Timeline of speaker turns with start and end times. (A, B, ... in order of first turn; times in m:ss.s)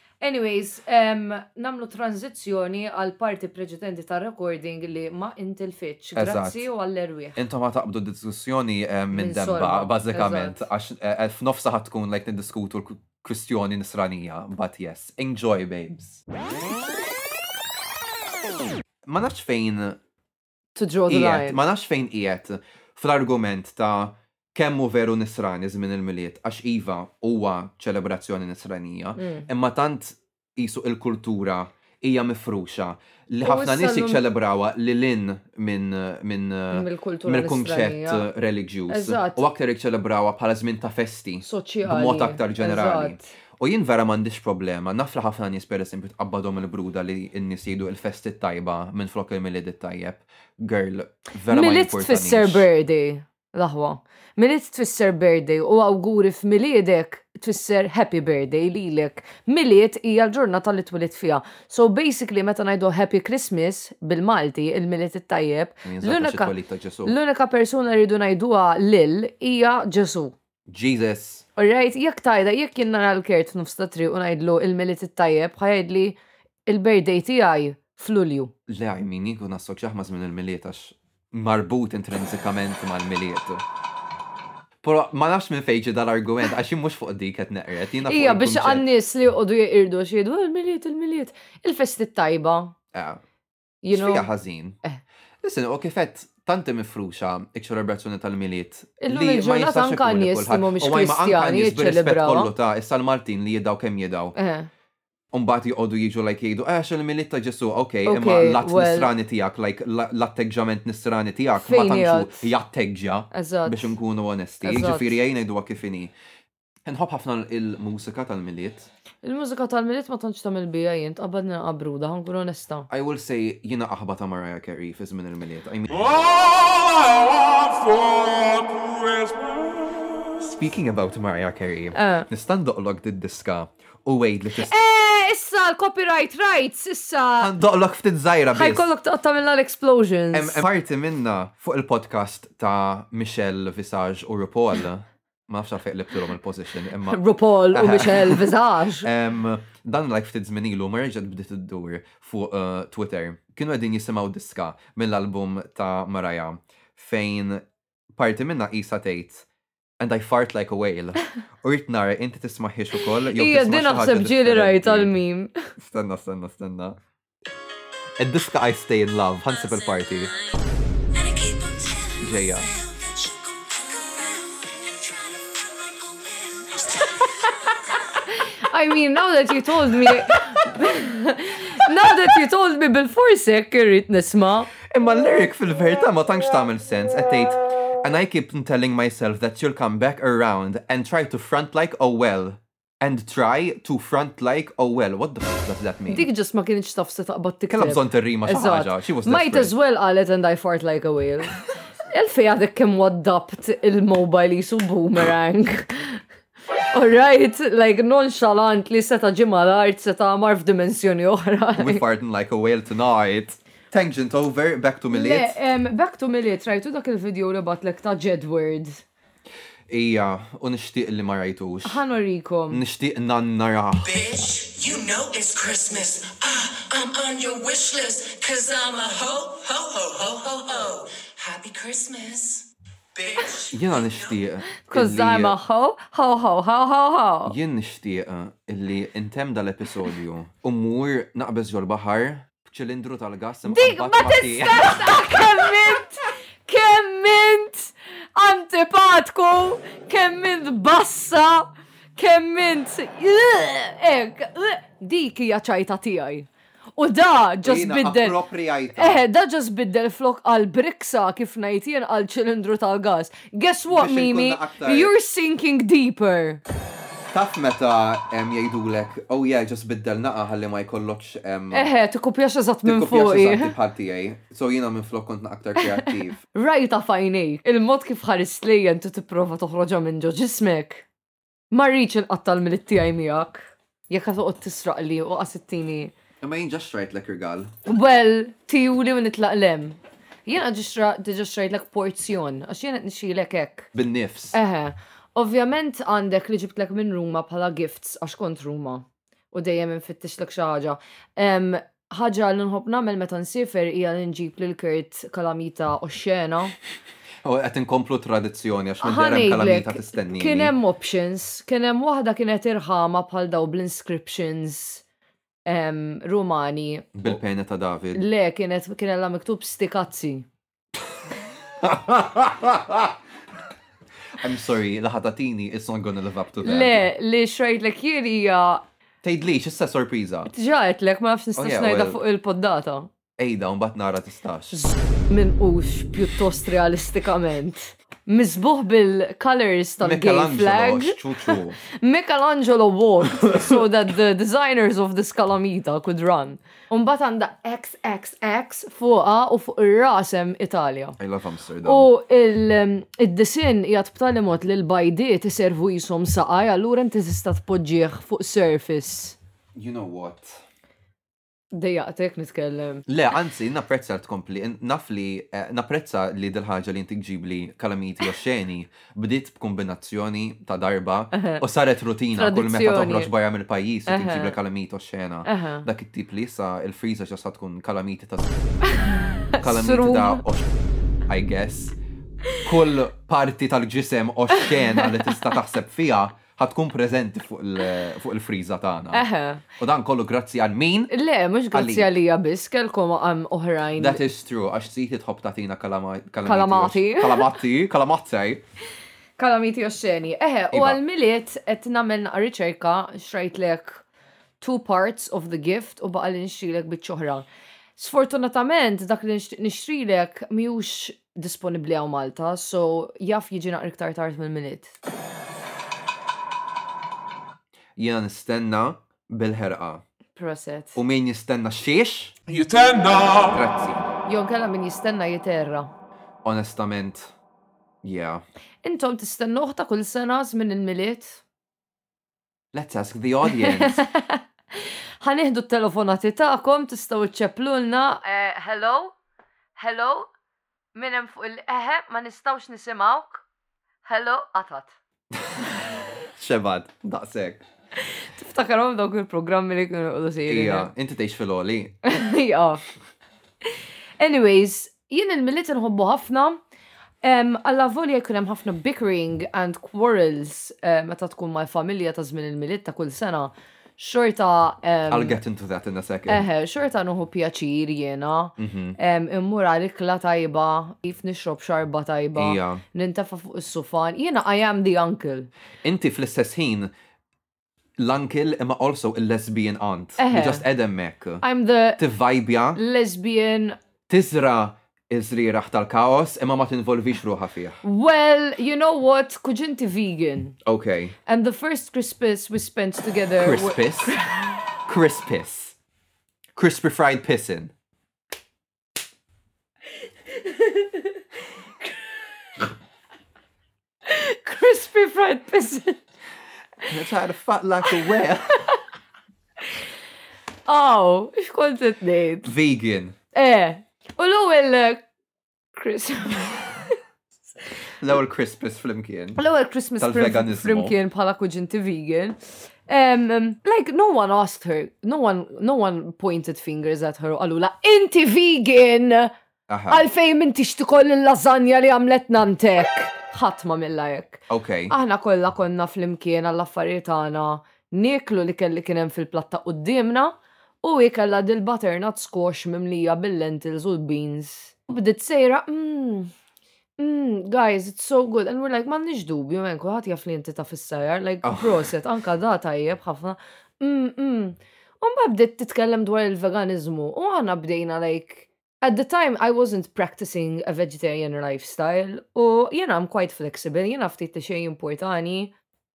0:00.2-0:07.4 A
0:06.2-0:06.6 B
0:07.4-0:16.2 B
0:09.1-0:10.7 A
0:19.0-0:20.0 B
0:20.8-0:21.6 A
0:21.1-0:52.7 B
0:29.2-0:29.5 A
0:33.4-0:34.2 A
0:36.7-0:38.3 A
0:38.9-0:39.4 A
0:41.4-0:43.3 A
0:51.5-1:10.3 A
1:05.8-1:07.1 B
1:10.7-1:11.4 B
1:11.6-1:18.5 A
1:18.7-1:23.6 B
1:24.8-1:28.8 B
1:28.0-1:32.7 A
1:32.9-1:33.2 B
1:33.8-1:34.3 A
1:33.9-1:34.8 B
1:35.4-1:44.3 B
1:39.0-1:42.5 A
1:44.4-1:44.7 A
1:45.3-1:56.1 B
1:48.0-1:49.1 A
1:51.6-1:52.5 A
1:53.3-1:53.9 A
1:54.6-1:55.2 A
1:56.8-1:58.9 B
1:59.2-2:02.9 A
2:02.9-2:06.1 B
2:05.9-2:10.4 C
2:10.4-2:14.7 B
2:11.9-2:12.3 A
2:14.5-2:17.5 A
2:17.4-2:18.9 B
2:18.5-2:20.6 A
2:20.3-2:28.4 B
2:27.1-2:29.1 A
2:29.0-2:39.4 B
2:40.0-2:45.1 B
2:43.2-2:45.7 A
2:45.8-2:47.0 B
2:48.2-2:50.3 B
2:49.6-2:50.6 D
2:51.1-2:58.0 D
2:52.2-2:52.6 B
2:58.3-3:04.7 A
3:04.8-3:16.3 B
3:16.1-3:26.2 A
3:17.7-3:19.7 B
3:26.9-3:32.0 A
3:31.8-3:35.5 B
3:35.1-3:39.0 A
3:39.9-3:42.0 B
3:41.8-3:42.8 A
3:42.7-3:44.2 B
3:44.0-3:54.3 D
3:53.7-3:55.6 B
3:54.8-3:57.6 A
3:57.4-4:05.2 B
4:03.6-4:18.4 A
4:17.6-4:19.2 B
4:18.9-4:26.6 A
4:23.9-4:25.1 B
4:27.3-4:31.9 B
4:31.7-4:33.7 A
4:32.8-4:36.4 B
4:35.8-4:41.0 A
4:41.7-4:46.1 A
4:46.4-4:47.7 B
4:47.8-4:53.9 A
4:53.9-4:54.6 B
4:54.5-5:06.7 A
5:07.4-5:10.7 B
5:09.0-5:15.0 A
5:15.6-5:17.2 A
5:17.1-5:18.2 B
5:18.1-5:20.4 A
5:21.8-5:23.2 B
5:24.3-5:27.0 B
5:26.6-5:28.8 A
5:29.2-5:30.5 B
5:30.5-5:33.1 A
5:31.6-5:32.2 B
5:33.4-5:34.8 B
5:34.7-5:51.2 A
5:40.0-5:41.8 B
5:43.4-5:43.8 B
5:51.2-5:52.1 B
5:51.8-5:59.4 A
5:59.8-6:00.6 B
6:01.7-6:03.0 A
6:03.1-6:18.6 B
6:11.3-6:11.6 A
6:12.3-6:13.3 A
6:14.1-6:14.6 A
6:15.4-6:15.8 A
6:18.9-6:20.4 A
6:19.6-6:20.7 B
6:21.3-6:22.0 B
6:22.6-6:29.3 B
6:24.6-6:25.5 A
6:29.1-6:29.6 A
6:29.8-6:31.1 B
6:31.1-6:34.2 A
6:31.7-6:32.1 B
6:34.0-6:38.6 B
6:36.4-6:37.5 A
6:39.4-6:44.0 A
6:40.7-6:41.0 B
6:44.6-6:47.4 A
6:48.0-6:54.9 A
6:58.0-7:00.0 B
7:00.4-7:01.0 A
7:01.0-7:02.4 B
7:02.5-7:03.6 C
7:03.5-7:04.0 B
7:04.2-7:05.9 A
7:06.4-7:07.3 B
7:08.0-7:08.4 B
7:08.8-7:11.4 A
7:12.7-7:14.0 B
7:13.5-7:19.1 A
7:19.8-7:20.3 A
7:20.9-7:23.4 A
7:24.0-7:24.9 A
7:25.3-7:27.6 B
7:28.0-7:30.9 A
7:30.5-7:32.0 B
7:32.0-7:32.8 A
7:33.6-7:36.6 A
7:37.2-7:45.4 A
7:45.1-7:46.4 B
7:46.3-7:55.5 A
7:48.6-7:49.0 B
7:52.4-7:52.8 B
7:55.8-7:56.9 B
7:58.0-8:01.4 B
8:00.2-8:00.6 A
8:01.4-8:02.0 A
8:02.0-8:02.8 B
8:02.7-8:03.8 A
8:04.1-8:07.8 B
8:07.8-8:10.6 A
8:10.6-8:11.1 B
8:11.2-8:14.6 A
8:13.4-8:14.2 B
8:14.8-8:15.8 B
8:16.6-8:17.7 B
8:20.3-8:21.2 A
8:24.0-8:26.0 A
8:26.9-8:28.7 B
8:30.7-8:32.5 A
8:32.4-8:33.2 B
8:33.3-8:35.0 A
8:35.7-8:37.0 A
8:38.0-8:39.4 B
8:39.4-8:49.3 A
8:40.0-8:41.0 B
8:49.7-8:50.0 B
8:49.9-9:06.3 A
8:54.5-8:54.9 B
9:07.0-9:25.5 A
9:11.4-9:11.8 B